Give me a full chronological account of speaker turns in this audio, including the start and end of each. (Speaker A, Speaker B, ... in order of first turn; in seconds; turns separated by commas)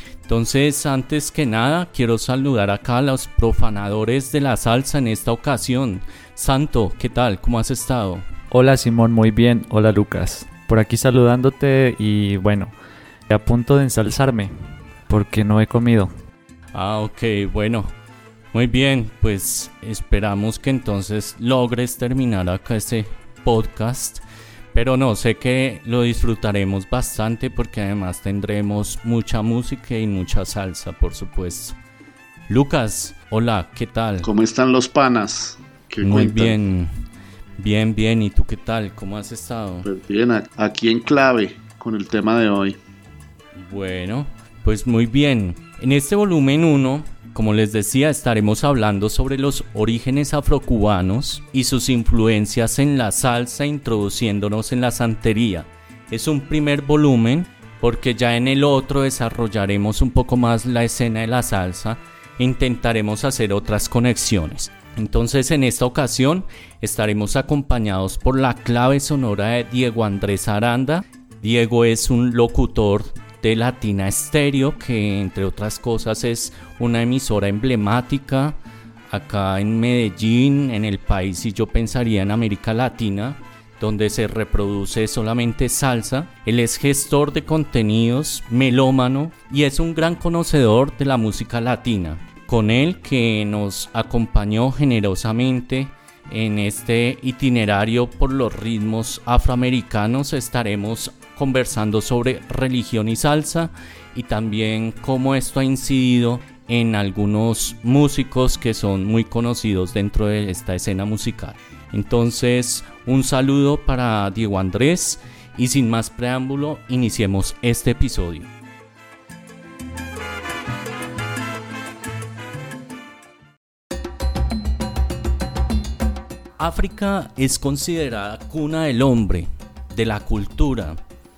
Speaker A: 0.3-8.3, Speaker B: 8.5-12.7, Speaker B: 13.3-14.5, Speaker B: 15.1-16.1, Speaker A: 16.7-17.9, Speaker A: 18.5-31.8, Speaker A: 32.5-34.3, Speaker C: 34.2-36.6, Speaker A: 36.0-37.0, Speaker A: 37.6-39.9, Speaker C: 39.8-42.8, Speaker A: 43.5-78.6, Speaker A: 79.1-118.5, Speaker A: 126.6-131.0